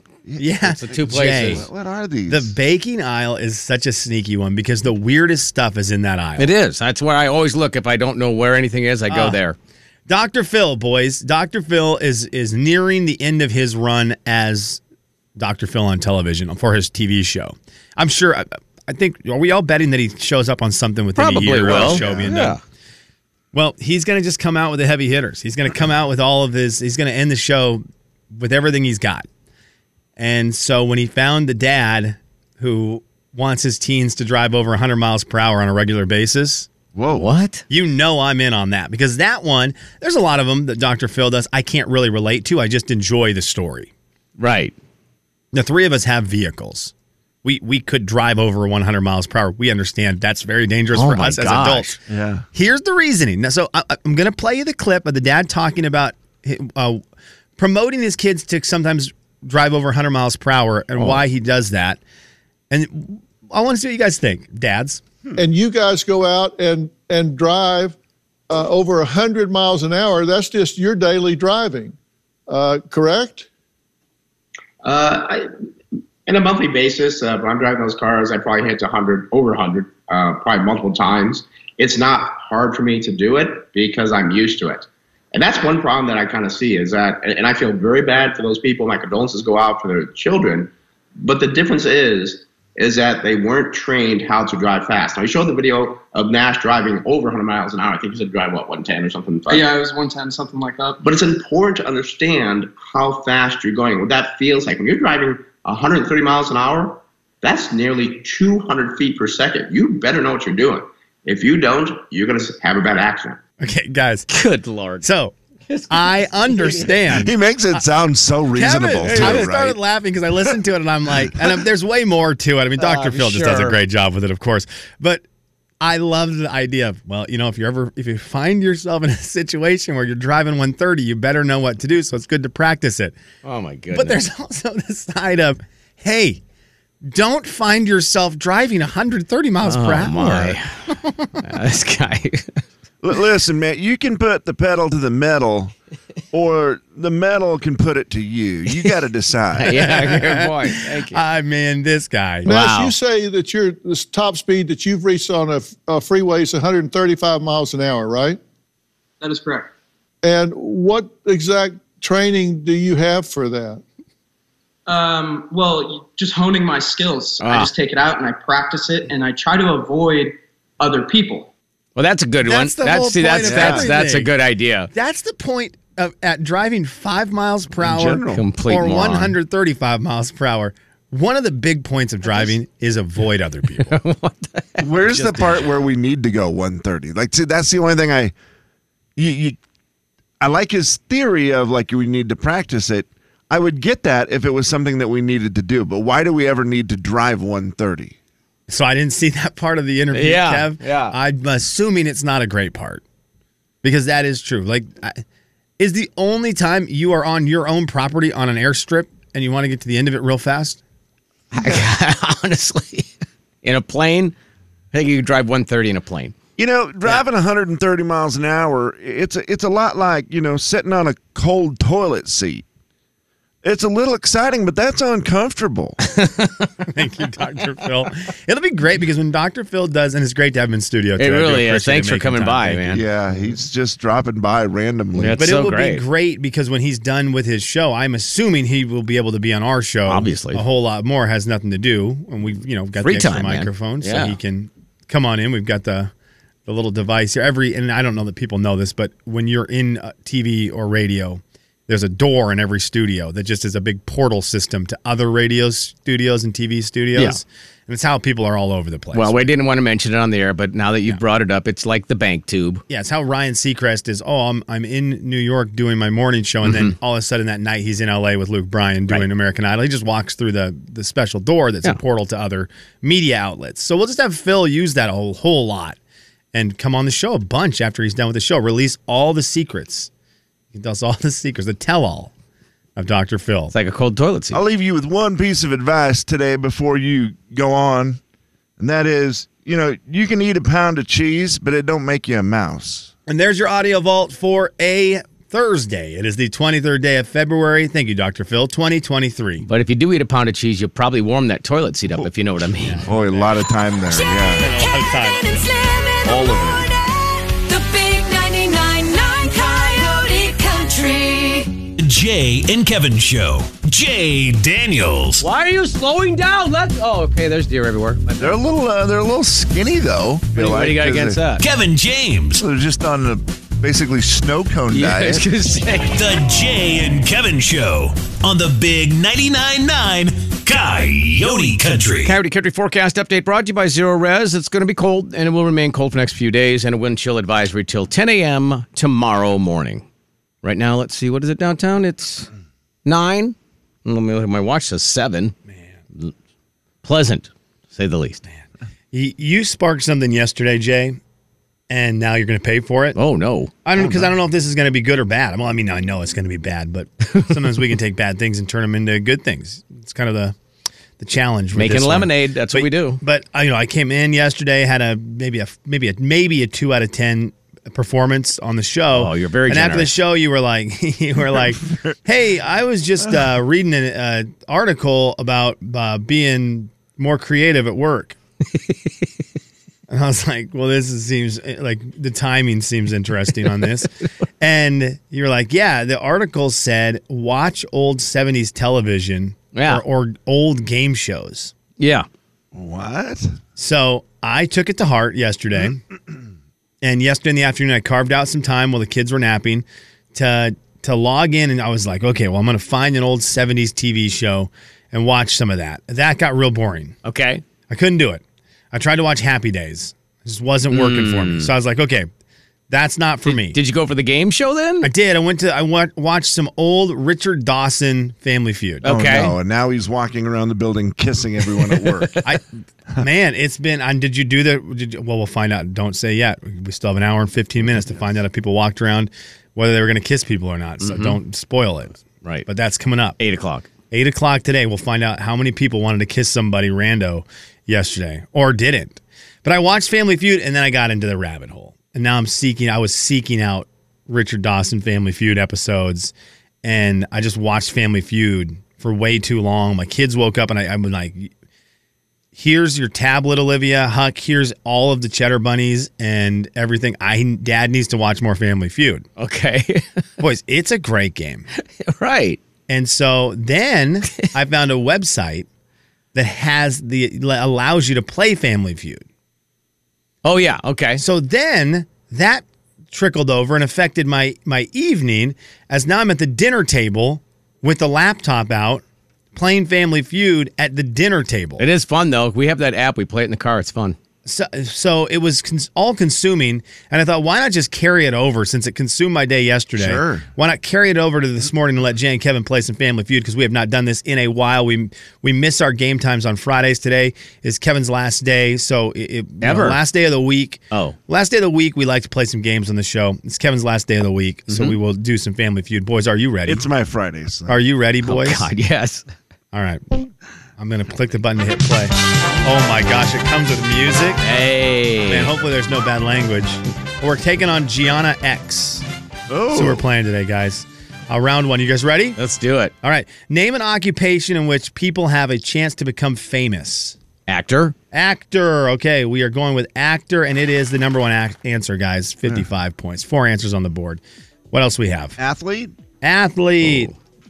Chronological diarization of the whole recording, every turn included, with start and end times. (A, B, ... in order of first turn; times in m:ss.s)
0:00.2-0:02.5 A
0:00.4-0:01.6 B
0:00.6-0:01.6 C
0:02.3-0:06.5 B
0:06.4-0:09.6 C
0:09.1-0:09.4 B
0:10.1-0:14.8 B
0:15.4-0:22.6 B
0:21.2-0:22.6 C
0:21.6-0:22.6 A
0:23.5-0:29.3 B
0:30.2-0:36.7 B
0:36.9-0:37.3 A
0:37.1-0:37.6 C
0:37.7-0:43.9 B
0:44.4-0:44.7 C
0:45.5-0:46.9 B
0:47.4-0:51.9 B
0:50.9-0:52.0 C
0:52.1-0:52.4 A
0:52.5-0:57.0 B
0:57.6-1:02.0 B
1:02.7-1:05.0 B
1:05.4-1:08.0 D
1:08.5-1:11.9 D
1:12.5-1:13.4 D
1:14.8-1:15.5 E
1:16.2-1:39.7 E
1:39.5-1:41.0 F
1:41.0-1:53.4 E
1:53.6-1:54.3 B
1:54.3-1:55.0 C
1:55.0-1:55.3 B
1:55.7-1:57.0 C
1:55.9-1:57.8 B
1:57.1-1:59.8 A
1:58.5-2:05.2 B
1:59.0-1:59.5 C
2:02.8-2:03.8 C
2:05.8-2:13.2 B
2:13.4-2:14.2 C
2:13.9-2:16.4 B
2:17.0-2:21.3 B
2:19.6-2:20.7 C
2:21.4-2:22.6 C
2:23.0-2:25.7 A
2:26.3-2:30.0 A
2:29.6-2:31.2 C
2:29.7-2:32.5 B
2:32.4-2:32.9 C
2:32.4-2:38.4 D
2:39.2-2:39.7 F
2:40.2-2:43.8 D
2:44.9-2:51.5 F
2:47.4-2:47.7 C
2:52.0-2:54.9 C
2:52.4-2:54.3 B
2:53.4-2:53.9 A
2:54.9-3:04.0 B
2:57.8-2:58.4 A
2:58.3-2:59.4 C
3:03.8-3:04.9 C
3:04.8-3:08.3 A
3:05.0-3:05.6 B
3:09.2-3:09.6 A
3:10.4-3:18.2 A
3:18.7-3:23.0 B
3:20.1-3:21.1 C
3:23.8-3:25.2 B
3:25.8-3:30.8 B
3:31.5-3:33.1 C
3:33.6-3:34.3 C
3:34.9-3:36.3 C
3:36.6-3:42.6 A
3:43.6-3:46.0 A
3:46.1-3:46.6 C
3:46.9-3:53.0 B
3:51.2-3:53.0 C
3:52.9-3:55.4 A
3:55.2-3:56.0 C
3:55.4-4:06.1 B
4:00.1-4:00.6 C
4:03.0-4:04.4 C
4:06.7-4:19.4 B
4:19.1-4:22.8 C
4:22.9-4:36.0 B
4:26.6-4:26.9 C
4:36.5-4:40.1 B
4:40.7-4:42.3 B
4:43.0-4:43.7 B
4:43.7-4:44.6 C
4:44.5-4:48.2 A
4:48.8-4:53.1 A
4:53.3-4:59.6 B
4:59.6-5:03.0 C
5:02.8-5:03.6 B
5:03.0-5:04.6 A
5:04.1-5:11.8 G
5:04.6-5:05.4 B
5:06.3-5:06.8 A
5:12.0-5:15.4 H
5:15.4-5:18.5 C
5:18.4-5:21.4 A
5:20.5-5:21.6 C
5:21.6-5:22.6 H
5:22.6-5:25.5 A
5:24.9-5:26.1 C
5:26.1-5:32.4 H
5:32.2-5:40.0 C
5:40.6-5:42.5 C
5:43.0-5:45.5 C
5:47.0-5:48.4 C
5:49.1-5:51.2 B
5:51.9-5:53.2 B
5:53.2-5:54.3 C
5:53.8-6:00.5 B
6:01.2-6:18.4 B
6:01.7-6:03.2 C
6:09.1-6:10.1 C
6:20.1-6:31.7 B
6:29.7-6:30.0 C
6:32.0-6:32.2 C
6:32.7-6:33.6 A
6:33.8-6:36.0 B
6:37.0-6:47.1 B
6:47.2-6:47.6 C
6:47.9-6:52.3 B
6:50.9-6:51.7 C
6:52.9-6:53.8 B
6:53.4-6:55.1 C
6:55.0-6:59.1 B
6:59.0-6:59.5 C
6:59.0-7:02.4 A
7:01.9-7:02.4 C
7:03.2-7:13.4 B
7:11.0-7:11.4 C
7:13.4-7:13.9 C
7:14.1-7:26.3 B
7:26.8-7:31.5 B
7:32.5-7:39.2 B
7:39.4-7:40.0 C
7:40.4-7:41.7 B
7:42.0-7:42.6 C
7:42.9-7:45.6 B
7:46.3-7:49.2 B
7:50.4-7:51.2 C
7:51.2-7:59.0 B
7:59.5-8:01.8 B
8:01.8-8:04.2 C
8:04.4-8:26.8 B
8:10.0-8:10.4 A
8:19.6-8:20.0 C
8:20.9-8:21.2 C
8:24.7-8:25.0 C
8:26.7-8:27.8 A
8:27.7-8:28.7 B
8:28.2-8:29.2 C
8:29.7-8:30.0 B
8:30.8-8:32.1 B
8:32.6-8:34.4 B
8:34.4-8:35.5 C
8:35.3-8:39.0 B
8:39.5-8:40.0 A
8:39.7-8:42.4 B
8:42.4-8:42.9 C
8:43.0-8:47.2 B
8:47.5-8:47.9 C
8:48.1-8:55.4 B
8:55.4-8:55.9 A
8:56.2-8:57.1 B
8:56.8-8:57.1 C